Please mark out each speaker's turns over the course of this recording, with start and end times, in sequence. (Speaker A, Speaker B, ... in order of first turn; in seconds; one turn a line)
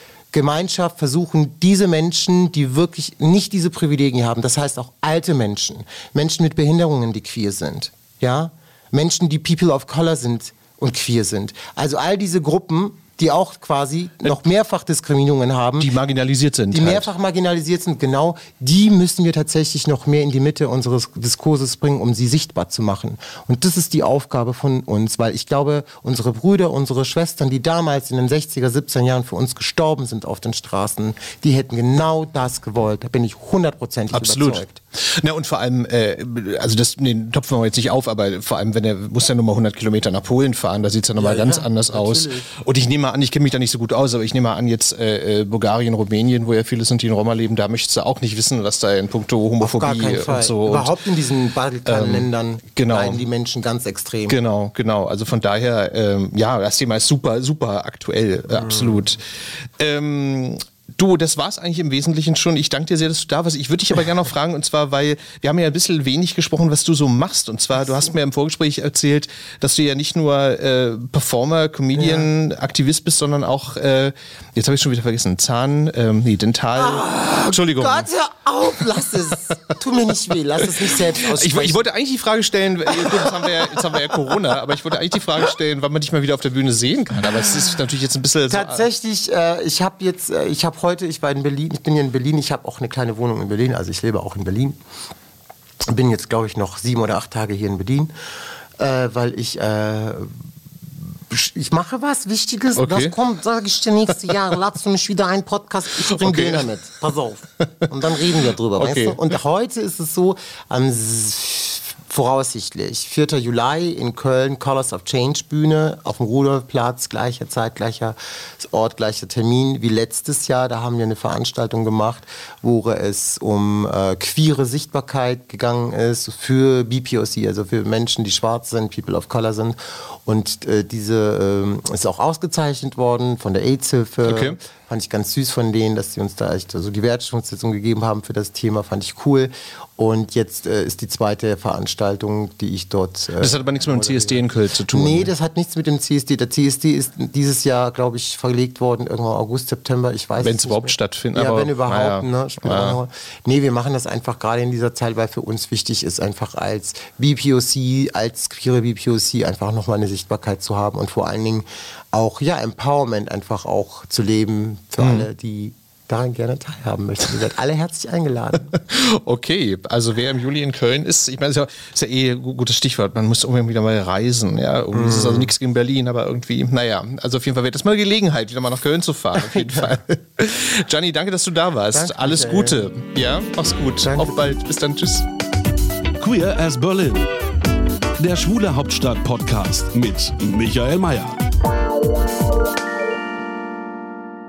Speaker A: 0.3-15.9
Speaker B: 15.8-17.1
Speaker A: 16.7-34.8
Speaker B: 34.1-50.9
Speaker A: 41.2-42.5
Speaker A: 49.6-54.4
Speaker B: 51.9-53.2
Speaker B: 54.3-78.1
Speaker A: 58.5-59.1
Speaker A: 72.0-72.3
Speaker A: 76.8-81.8
Speaker B: 81.0-88.8
Speaker A: 83.0-83.8
Speaker A: 88.5-94.8
Speaker A: 95.9-98.1
Speaker A: 98.8-100.3
Speaker A: 101.3-168.8
Speaker B: 102.8-103.2
Speaker B: 106.1-106.7
Speaker B: 108.8-109.2
Speaker B: 134.2-134.6
Speaker B: 143.4-145.3
Speaker B: 150.4-153.0
Speaker B: 165.0-165.3
Speaker B: 168.7-185.3
Speaker A: 174.9-175.5
Speaker A: 179.5-179.9
Speaker A: 181.9-182.8
Speaker A: 184.0-184.4
Speaker C: 186.2-187.3
Speaker C: 188.2-191.4